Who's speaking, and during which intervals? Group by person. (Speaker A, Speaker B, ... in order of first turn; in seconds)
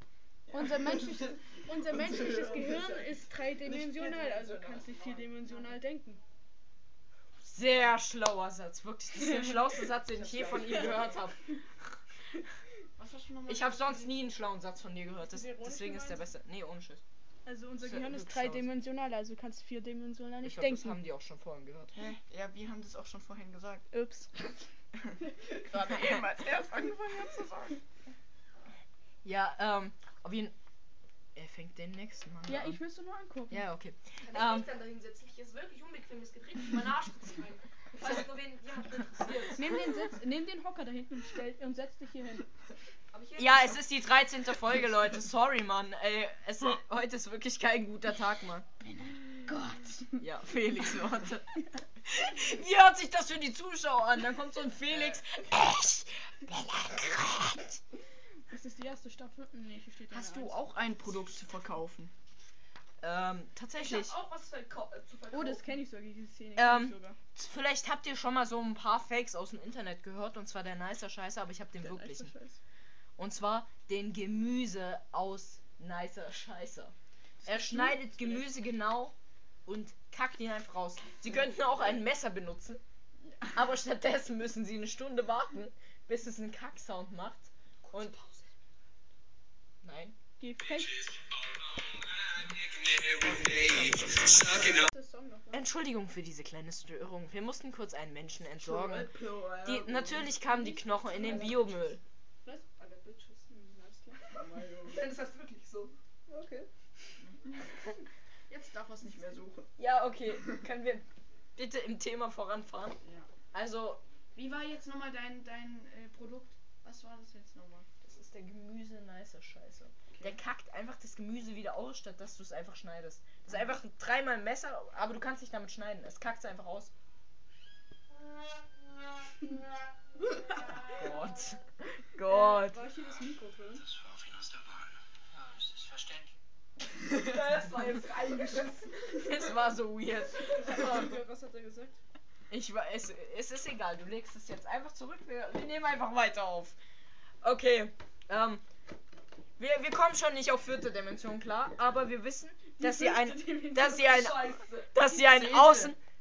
Speaker A: 0.5-5.6, 10.1-11.2, 13.0-14.1, 21.9-23.9, 25.0-27.8, 49.0-50.1, 54.9-55.2, 60.1-62.1, 98.6-100.3, 104.3-105.0, 107.2-107.6, 108.5-109.7, 113.0-113.3, 114.3-117.9, 120.1-120.4, 155.1-155.9
Speaker B: 0.5-6.2, 15.2-16.3, 17.4-21.0, 23.9-24.6, 32.5-33.7, 39.5-42.5, 58.5-60.6, 65.3-67.2, 71.8-72.6, 77.6-78.0, 90.4-90.9, 94.8-95.7, 100.3-101.7, 103.5-104.4, 132.2-133.8, 140.5-142.0, 152.8-154.4
Speaker C: 7.4-11.5, 13.5-17.0, 17.8-18.7, 20.4-22.1, 29.2-30.5, 31.3-32.8, 33.5-34.7, 43.4-48.7, 50.2-57.8, 63.0-64.2, 66.6-72.3, 73.2-76.9, 77.4-82.8, 83.5-88.1, 89.8-90.1, 95.5-102.0, 109.8-111.0, 111.6-113.0, 113.5-114.0, 118.0-126.9, 130.9-132.8, 139.2-141.0, 142.5-146.8, 147.4-148.6, 149.6-156.0
Speaker D: 34.2-39.8, 43.1-43.8, 63.7-65.7, 87.8-88.5, 101.2-101.7, 102.8-103.5, 104.9-106.7, 137.1-139.0, 154.0-154.9
Speaker E: 90.6-94.9, 133.8-136.3